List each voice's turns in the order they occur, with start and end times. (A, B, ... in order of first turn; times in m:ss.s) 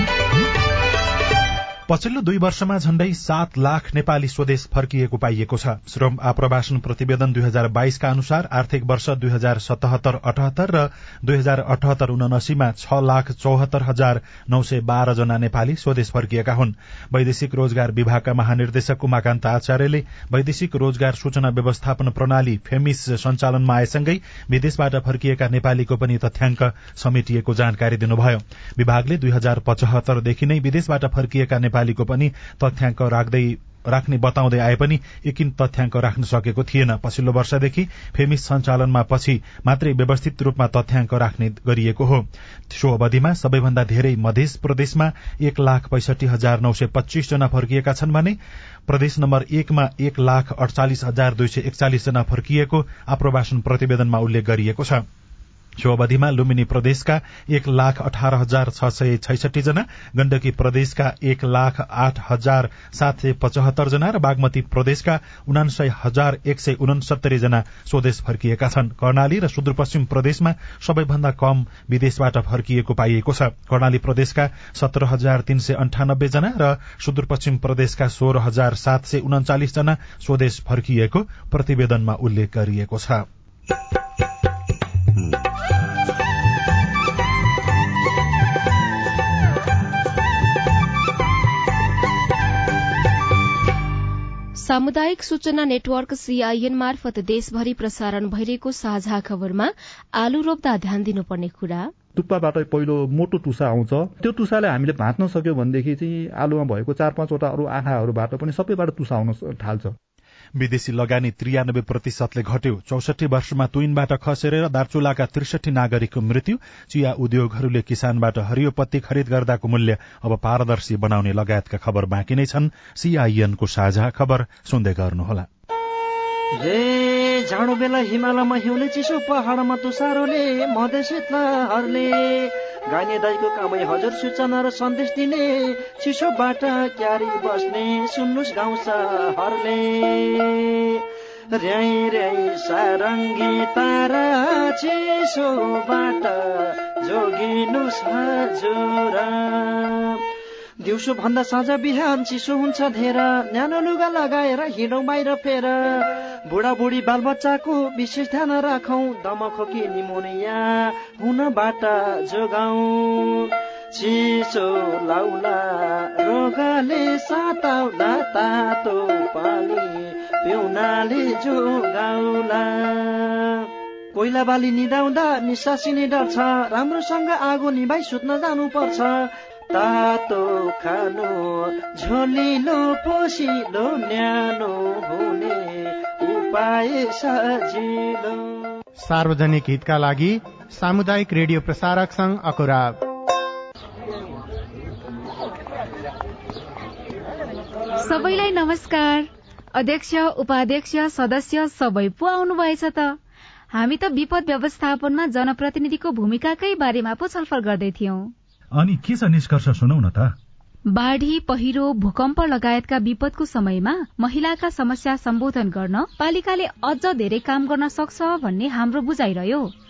0:01.9-0:48.4 A
0:48.9-0:55.0 A
0:55.8-1:23.2 A
1:34.6-1:41.9 B
1:42.1-1:50.0 C
1:50.6-2:05.5 A
2:06.5-2:30.2 D
2:30.8-3:08.7 D
3:09.0-3:13.0 E
3:18.0-3:23.2 F
3:23.7-3:28.3 F
3:28.7-3:30.3 A
3:30.9-3:39.7 F